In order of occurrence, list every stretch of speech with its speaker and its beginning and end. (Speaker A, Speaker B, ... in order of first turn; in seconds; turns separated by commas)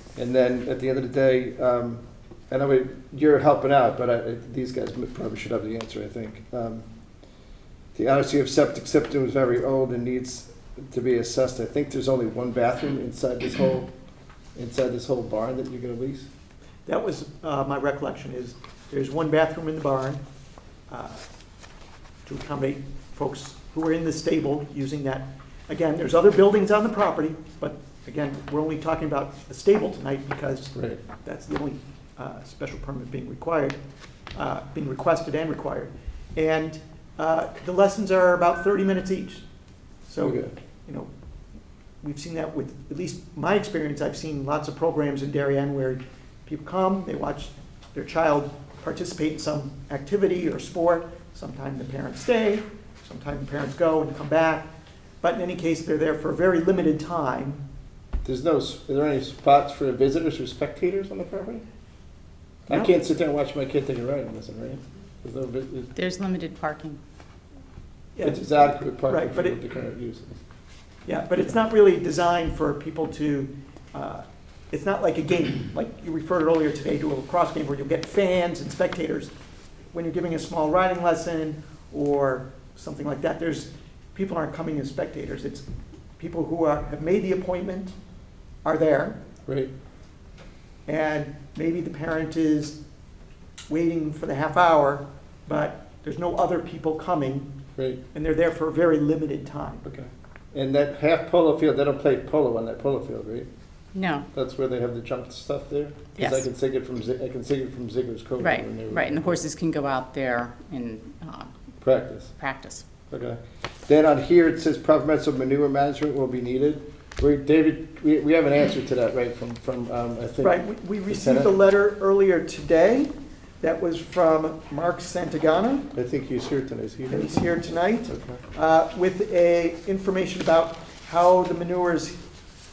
Speaker A: 0.2-6.8, Speaker A: 7.9-13.9, Speaker A: 14.6-16.3, Speaker B: 16.9-20.2, Speaker B: 20.9-21.2, Speaker B: 22.2-33.8, Speaker A: 30.7-31.0, Speaker B: 34.3-39.4, Speaker B: 40.1-41.1, Speaker A: 40.2-40.5, Speaker B: 42.0-54.7, Speaker B: 55.2-57.6, Speaker A: 58.2-61.6, Speaker A: 62.7-65.9, Speaker C: 65.9-67.0, Speaker B: 68.2-69.6, Speaker A: 68.2-70.3, Speaker B: 71.0-79.3, Speaker B: 79.9-85.6, Speaker B: 86.2-87.9, Speaker B: 88.6-89.2, Speaker A: 89.5-89.7, Speaker B: 90.8-92.8, Speaker B: 93.7-97.5, Speaker A: 97.8-98.0, Speaker B: 98.1-99.8, Speaker A: 99.8-103.5, Speaker C: 103.9-104.2, Speaker A: 104.3-109.4, Speaker C: 106.2-106.5, Speaker C: 108.4-111.5, Speaker A: 111.8-112.3, Speaker C: 112.3-112.8, Speaker A: 113.1-121.5, Speaker B: 120.4-125.9, Speaker A: 125.9-127.4, Speaker B: 127.1-132.1, Speaker A: 128.1-128.4